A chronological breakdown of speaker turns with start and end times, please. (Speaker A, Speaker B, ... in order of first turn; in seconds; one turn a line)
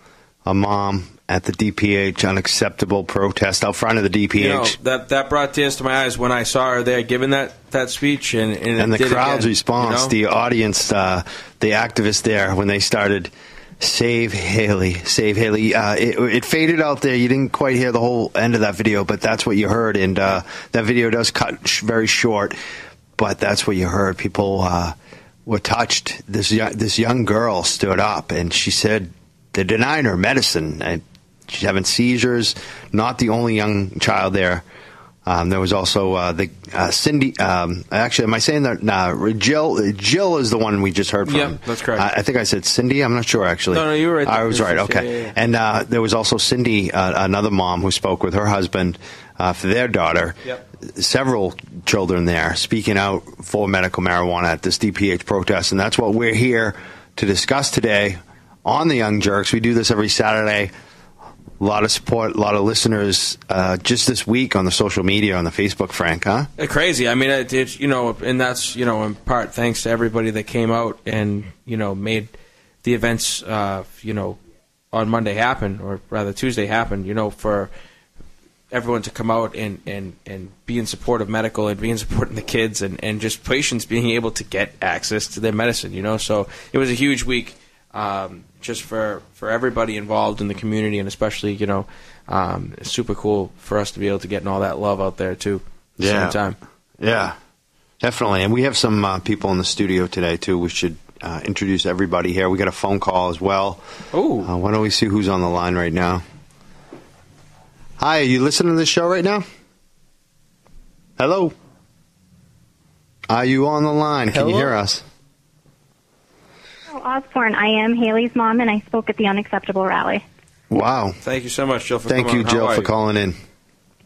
Speaker A: 0.4-4.8
Speaker B: 4.4-10.1
Speaker A: 8.8-22.6
Speaker A: 23.2-24.9
Speaker A: 25.4-34.6
Speaker A: 35.2-60.7
Speaker B: 41.2-42.0
Speaker B: 43.7-45.3
Speaker A: 61.6-66.5
Speaker B: 66.6-72.3
Speaker B: 72.8-74.4
Speaker B: 74.9-77.7
Speaker B: 78.7-96.6
Speaker A: 96.0-96.4
Speaker A: 97.0-97.3
Speaker A: 98.0-103.8
Speaker B: 104.1-104.5
Speaker A: 104.4-106.2
Speaker A: 108.0-109.4
Speaker A: 111.2-111.5
Speaker A: 113.3-115.0
Speaker B: 114.3-114.7
Speaker C: 116.9-120.2
Speaker A: 120.7-121.2
Speaker B: 121.2-122.9
Speaker A: 122.1-123.4